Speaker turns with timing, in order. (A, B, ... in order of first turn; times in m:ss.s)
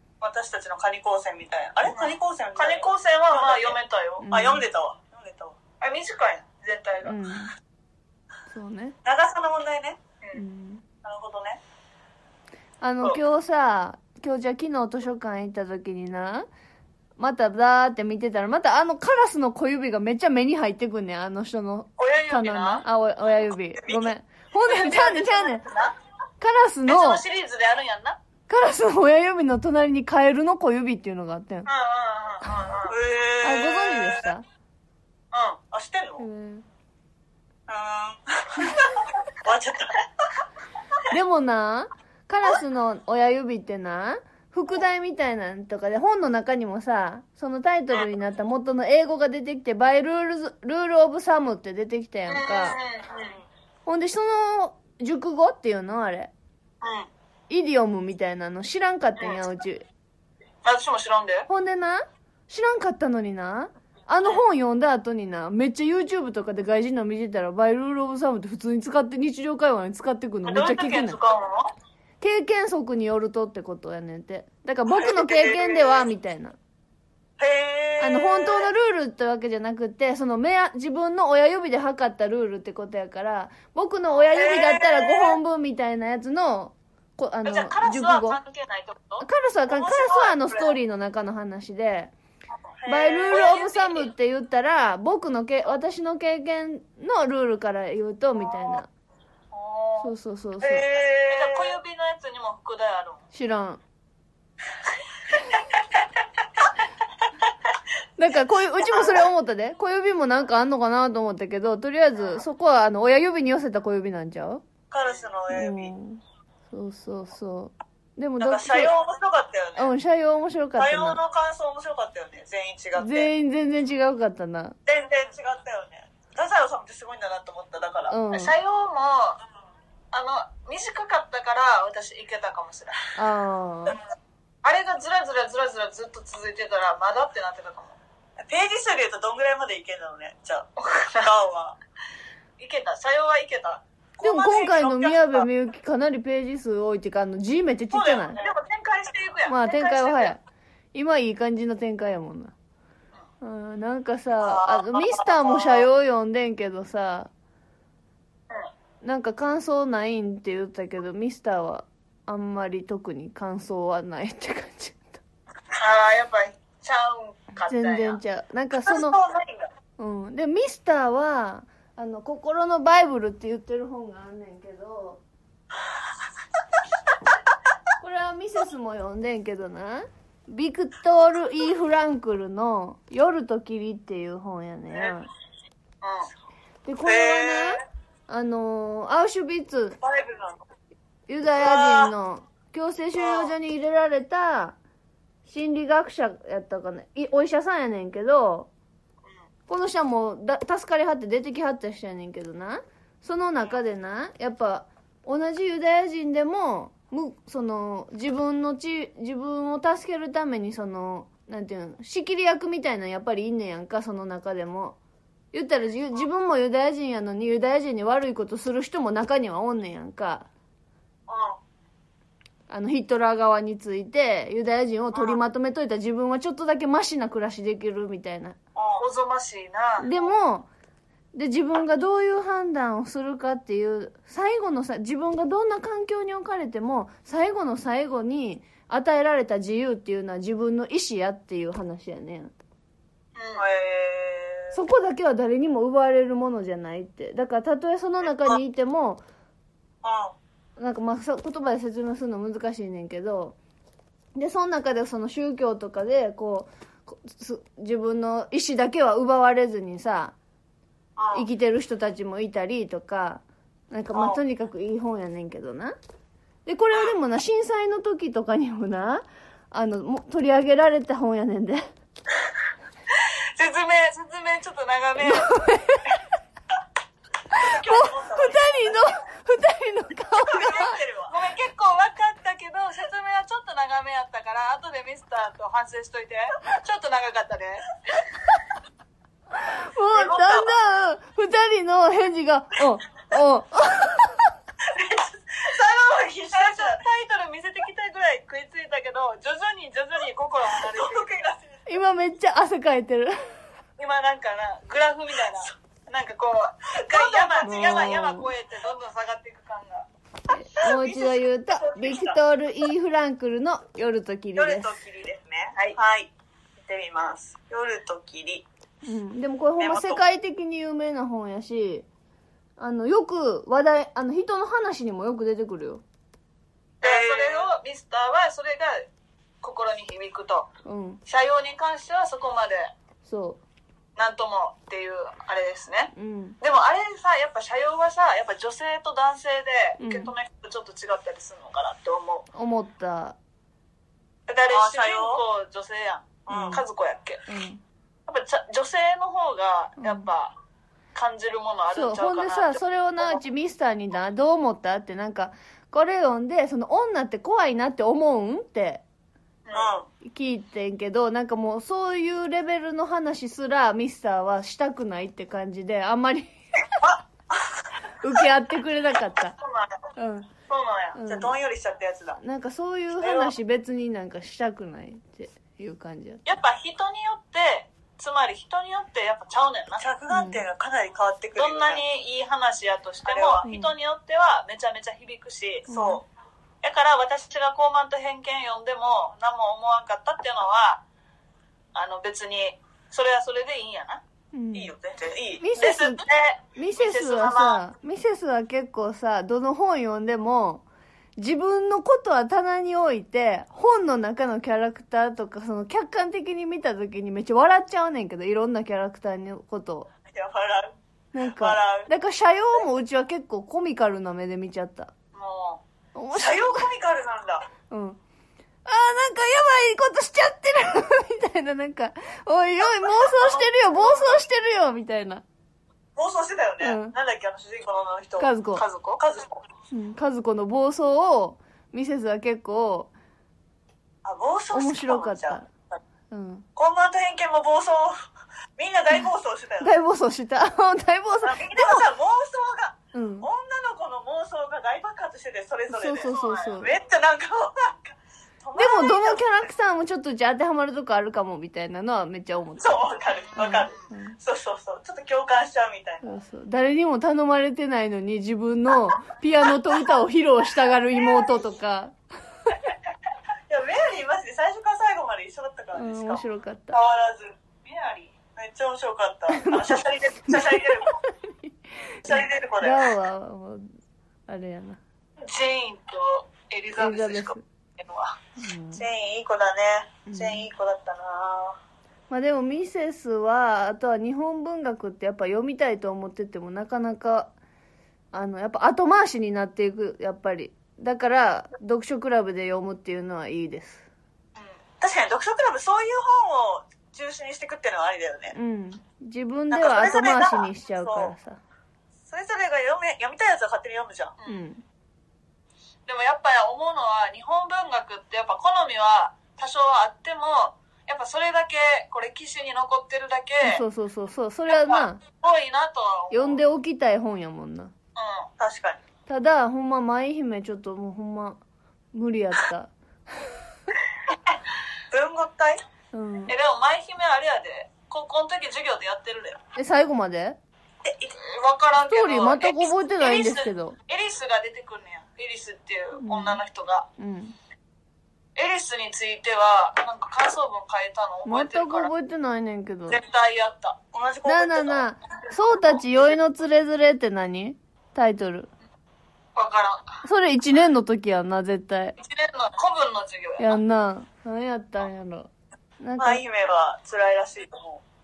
0:00.2-0:03.8 A
0:01.9-0:04.2 B
0:04.2-0:04.7 C
0:04.3-0:05.6 A
0:05.8-0:07.2 B
0:07.0-0:07.5 C
0:08.5-0:09.0 C
0:09.0-0:10.0 A
0:10.3-0:10.8 C
0:11.0-0:11.6 A
0:12.8-0:16.5 C
0:17.2-0:25.6 C
0:22.0-0:22.8 B
0:23.8-0:24.1 A
0:24.6-0:26.0 B
0:26.4-0:27.2 C
0:26.9-0:28.2 B
0:28.5-0:31.7 C
0:31.7-0:33.0 B
0:32.9-0:34.3 A
0:33.4-0:34.4 C
0:35.3-0:35.6 B
0:35.7-0:36.2 A
0:36.2-0:36.6 C
0:37.7-0:40.0 A
0:41.1-0:52.8 C
0:52.3-0:53.4 B
0:53.9-0:56.3 C
0:56.8-0:57.1 B
0:57.5-0:59.9 C
1:00.6-1:01.5 B
1:01.5-1:11.2 C
1:10.4-1:11.7 B
1:12.2-1:16.6 C
1:14.9-1:16.1 A
1:17.4-1:18.7 A
1:18.0-1:28.4 C
1:24.3-1:25.4 A
1:27.4-1:29.3 B
1:29.2-1:32.1 C
1:29.7-1:30.7 A
1:32.8-1:33.6 A
1:32.9-1:38.9 C
1:33.3-1:34.1 B
1:39.5-1:40.1 B
1:40.0-1:40.8 C
1:40.6-1:41.8 A
1:41.3-1:43.2 B
1:43.3-1:43.8 C
1:48.2-1:54.6 C
1:54.9-1:55.9 A
1:55.5-1:58.9 C
1:58.4-1:59.9 A
1:59.8-2:01.2 C
2:00.8-2:03.3 A
2:03.0-2:04.8 C
2:04.9-2:08.1 A
2:08.1-2:08.5 C
2:08.3-2:09.4 B
2:10.1-2:13.0 B
2:13.2-2:14.0 C
2:14.6-2:18.0 B
2:18.4-2:20.7 A
2:20.8-2:21.3 B
2:21.2-2:21.8 A
2:22.6-2:23.8 B
2:24.2-2:25.5 A
2:24.2-2:28.4 C
2:27.9-2:30.4 B
2:29.5-2:30.4 C
2:30.9-2:32.5 C
2:33.4-2:37.3 C
2:39.0-2:45.2 C
2:45.7-2:48.2 B
2:47.7-2:49.2 C
2:48.9-2:49.7 A
2:50.0-2:55.2 C
2:58.0-3:05.3 C
3:06.0-3:06.3 B
3:06.8-3:10.0 C
3:07.0-3:07.8 A
3:10.0-3:10.6 A
3:11.3-3:14.8 C
3:11.6-3:12.1 A
3:15.5-3:18.7 C
3:19.7-3:35.0 C
3:35.5-3:40.5 C
3:41.3-3:41.6 A
3:42.7-3:48.6 C
3:45.1-3:45.4 A
3:48.8-3:49.0 A
3:49.0-3:50.1 B
3:50.0-3:50.7 C
3:51.3-4:02.5 C
4:03.4-4:03.6 B
4:03.6-4:04.8 A
4:04.7-4:09.2 C
4:10.0-4:10.4 A
4:10.8-4:13.6 C
4:14.4-4:20.4 C
4:21.2-4:21.5 A
4:21.3-4:26.0 C
4:24.1-4:24.4 A
4:26.7-4:31.9 C
4:33.2-4:35.5 B
4:35.3-4:36.2 C
4:37.5-4:41.0 C
4:37.6-4:39.2 A
4:40.4-4:41.4 A
4:41.3-4:48.2 B
4:49.6-4:54.5 C
4:50.2-4:50.7 B
4:54.8-4:57.1 A
4:56.5-5:01.3 B
5:00.7-5:01.8 A
5:01.9-5:03.4 C
5:04.0-5:10.1 B
5:07.0-5:08.2 A
5:07.6-5:08.5 C
5:10.5-5:14.9 C
5:10.8-5:12.4 A
5:14.6-5:18.7 A
5:19.0-5:22.1 C
5:19.8-5:20.2 A
5:22.8-5:26.0 C
5:27.0-5:29.1 B
5:27.0-5:27.7 A
5:29.6-5:30.7 B
5:30.8-5:31.2 C
5:31.3-5:32.9 B
5:33.2-5:33.6 C
5:34.2-5:42.5 B
5:36.2-5:36.6 C
5:40.0-5:40.3 C
5:42.5-5:43.4 C
5:44.5-5:47.4 B
5:44.7-5:45.4 A
5:46.5-5:46.8 A
5:46.5-5:46.8 C
5:47.5-5:47.8 C
5:48.3-5:50.5 B
5:50.0-5:50.3 C
5:51.2-5:53.4 B
5:51.9-5:59.0 C
5:59.7-5:59.9 B
5:59.7-6:00.1 A
6:00.2-6:06.6 C
6:07.0-6:07.7 A
6:08.2-6:09.6 C
6:09.6-6:10.0 B
6:10.2-6:10.5 C
6:10.7-6:11.2 B
6:11.2-6:11.6 C
6:11.3-6:12.4 A
6:12.4-6:16.4 C
6:13.2-6:13.5 B
6:16.5-6:20.0 B
6:20.0-6:22.0 A
6:20.3-6:20.6 C
6:21.6-6:25.9 B
6:23.2-6:23.6 A
6:23.6-6:23.9 C
6:25.9-6:26.2 A
6:25.9-6:26.2 C
6:26.8-6:31.0 B
6:32.0-6:34.2 B
6:34.5-6:34.9 C
6:34.7-6:35.6 A
6:35.6-6:40.8 C
6:35.8-6:37.8 B
6:41.4-6:50.1 C
6:50.3-6:52.1 A
6:51.3-6:55.1 C
6:55.3-6:55.8 B
6:56.2-6:56.9 C
6:56.3-6:57.7 A
6:57.9-6:58.2 C
6:58.8-7:05.4 C
7:06.2-7:08.5 A
7:06.8-7:07.2 C
7:08.4-7:08.8 C
7:08.8-7:09.2 B
7:09.2-7:09.6 A
7:09.9-7:13.1 C
7:14.2-7:16.0 A
7:14.7-7:15.7 C
7:16.3-7:16.7 C
7:16.8-7:18.2 A
7:18.8-7:20.0 A
7:19.8-7:22.1 C
7:21.4-7:29.5 A
7:23.1-7:23.5 C
7:25.9-7:27.0 C
7:26.2-7:26.8 B
7:28.8-7:33.0 C
7:32.8-7:36.4 A
7:33.6-7:34.4 C
7:33.6-7:34.0 B
7:36.2-7:42.2 C
7:41.2-7:41.6 A
7:43.7-7:47.5 A
7:46.0-7:47.0 C
7:47.8-7:48.4 B
7:48.6-7:51.2 A
7:49.5-7:53.9 C
7:52.2-7:53.0 A
7:54.5-7:55.0 C
7:55.4-7:58.4 B
7:57.0-7:57.6 C
7:58.6-7:59.0 C
7:59.0-8:01.8 A
8:00.3-8:00.7 C
8:02.3-8:07.5 C
8:08.3-8:14.0 C
8:15.0-8:18.6 A
8:18.5-8:21.6 C
8:19.7-8:21.3 A
8:22.3-8:24.3 A
8:24.5-8:24.8 C
8:26.1-8:33.8 B
8:33.6-8:35.2 C
8:34.7-8:36.6 B
8:36.3-8:37.9 C
8:38.2-8:38.5 B
8:38.6-8:39.0 A
8:39.3-8:41.6 C
8:42.1-8:43.5 C
8:45.1-8:45.8 A
8:46.1-8:46.5 C
8:46.5-8:49.6 B
8:49.8-8:50.6 C
8:51.0-8:51.4 A
8:51.4-8:57.1 B
8:52.1-8:54.0 C
8:56.2-8:56.6 C
8:57.2-8:57.6 C
8:58.6-9:02.1 B
9:01.4-9:03.2 C
9:03.1-9:04.0 B
9:04.1-9:05.1 A
9:04.4-9:08.7 C
9:09.6-9:10.2 B
9:10.2-9:12.2 C
9:12.2-9:13.8 B
9:13.6-9:15.5 C
9:16.0-9:16.4 C
9:16.2-9:18.0 A